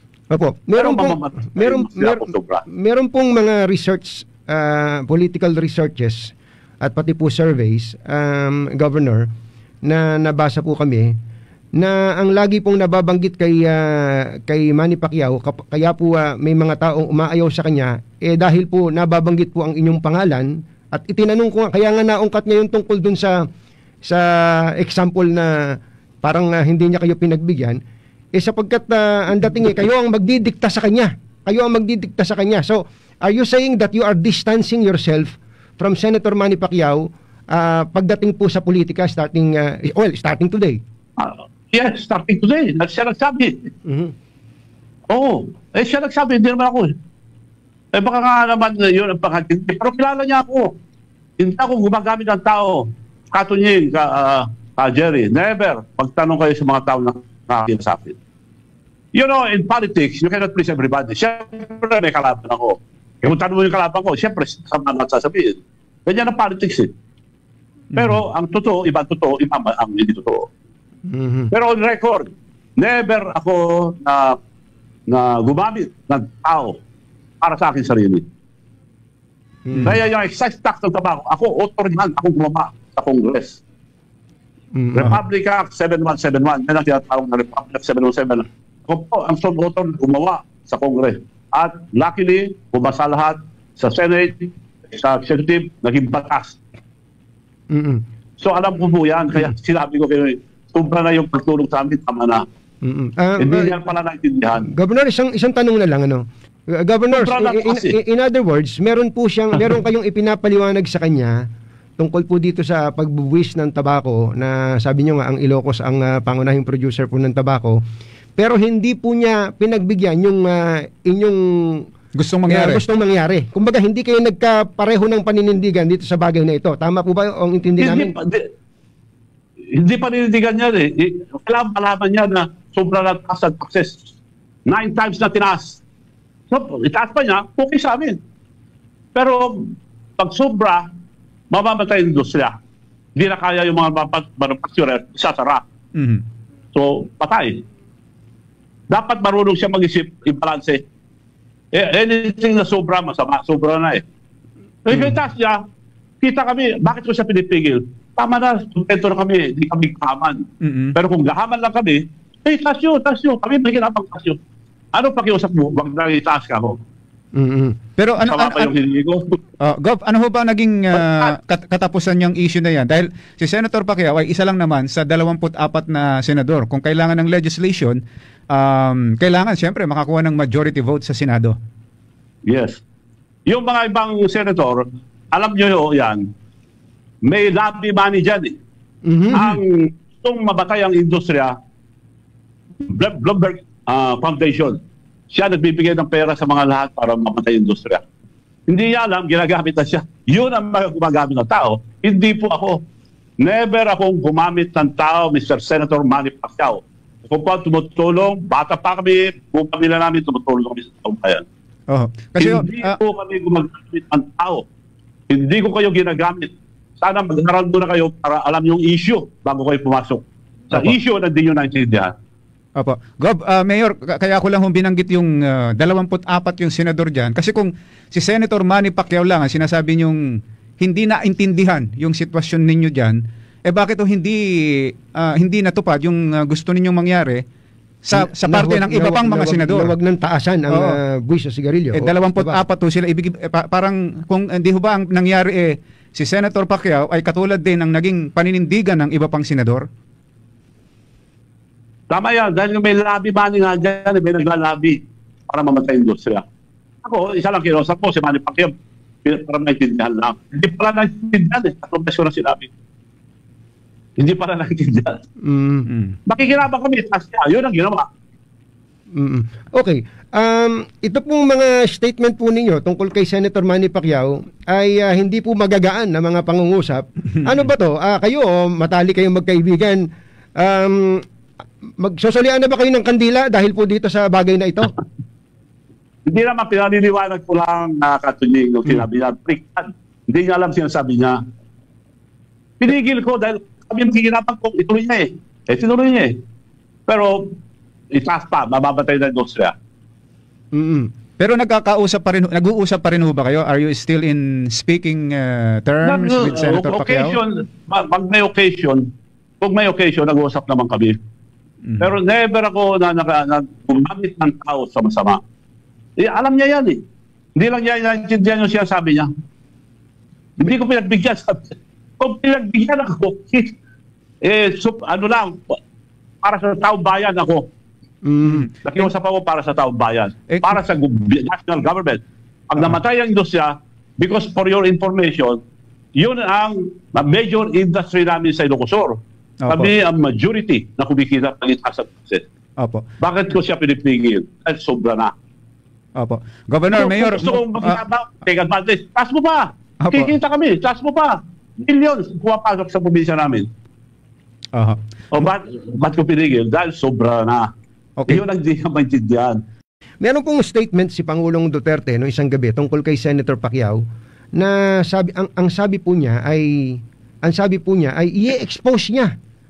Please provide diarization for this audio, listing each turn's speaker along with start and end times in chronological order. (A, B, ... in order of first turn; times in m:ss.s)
0:00.3-0:09.3 A
0:00.8-0:02.6 B
0:09.8-0:11.1 A
0:11.8-0:23.4 A
0:24.0-0:25.5 A
0:26.2-0:27.8 A
0:28.3-0:40.8 A
0:41.2-0:43.7 B
0:43.8-0:44.1 A
0:45.1-0:46.9 B
0:47.9-0:50.7 B
0:51.4-0:58.2 B
0:59.1-1:06.9 B
1:07.9-1:08.2 C
1:07.9-1:10.5 B
1:11.1-1:11.5 A
1:11.5-1:14.4 B
1:15.1-1:16.8 B
1:17.4-1:18.2 B
1:19.7-1:20.0 A
1:19.8-1:23.6 B
1:24.7-1:25.2 A
1:24.9-1:36.6 B
1:37.7-1:38.0 A
1:38.4-1:42.4 B
1:42.8-1:43.7 A
1:43.4-1:44.6 B
1:44.6-1:51.4 A
1:47.1-1:47.9 B
1:52.0-1:57.8 A
1:58.4-2:01.8 A
2:02.1-2:02.8 C
2:02.5-2:08.1 A
2:07.8-2:08.5 B
2:09.7-2:14.0 B
2:14.6-2:15.8 B
2:16.5-2:18.2 B
2:19.1-2:20.9 B
2:21.5-2:22.6 B
2:23.2-2:25.6 B
2:26.0-2:26.2 C
2:26.7-2:27.6 B
2:28.9-2:30.8 B
2:31.7-2:34.0 B
2:34.8-2:35.6 B
2:36.2-2:40.4 B
2:40.6-2:41.0 C
2:40.9-2:44.4 B
2:44.9-2:46.8 B
2:47.4-2:47.8 A
2:48.0-2:48.7 C
2:48.2-2:49.4 B
2:49.6-2:58.0 C
2:58.5-3:01.6 C
3:02.4-3:02.8 B
3:03.5-3:06.2 B
3:07.2-3:08.5 B
3:09.0-3:09.6 A
3:09.3-3:11.5 B
3:12.8-3:14.8 B
3:15.3-3:18.0 B
3:18.7-3:22.8 B
3:23.4-3:31.4 B
3:31.9-3:33.0 C
3:32.4-3:34.6 B
3:35.3-3:42.1 B
3:42.8-3:50.2 C
3:50.8-3:57.4 C
3:58.0-3:59.9 C
3:58.1-4:02.6 A
4:00.7-4:01.0 C
4:01.9-4:09.8 C
4:12.1-4:16.4 B
4:17.0-4:18.7 B
4:19.2-4:22.7 B
4:24.2-4:25.2 B
4:25.4-4:25.9 A
4:25.9-4:26.2 C
4:26.3-4:28.0 B
4:29.2-4:40.0 A
4:40.6-4:41.2 A
4:42.0-4:44.9 A
4:46.2-4:51.4 B
4:52.8-4:56.3 B
4:57.1-4:57.5 B
4:58.1-4:59.7 B
5:00.7-5:01.1 A
5:01.4-5:07.4 C
5:06.0-5:09.0 B
5:09.6-5:11.2 B
5:11.8-5:12.1 C
5:12.0-5:15.4 B
5:16.2-5:17.0 B
5:17.6-5:19.3 B
5:20.6-5:23.7 B
5:24.4-5:25.8 B
5:26.4-5:27.6 B
5:28.2-5:28.7 A
5:28.4-5:29.1 C
5:28.8-5:35.6 B
5:30.5-5:30.8 C
5:36.2-5:39.2 B
5:39.6-5:39.9 C
5:39.7-5:42.4 B
5:42.8-5:43.0 C
5:43.2-5:45.3 B
5:46.2-5:48.0 C
5:46.9-5:53.7 B
5:50.0-5:50.3 C
5:55.3-5:57.7 B
5:58.2-5:58.4 C
5:58.3-5:59.6 B
6:00.2-6:04.0 A
6:04.6-6:09.3 A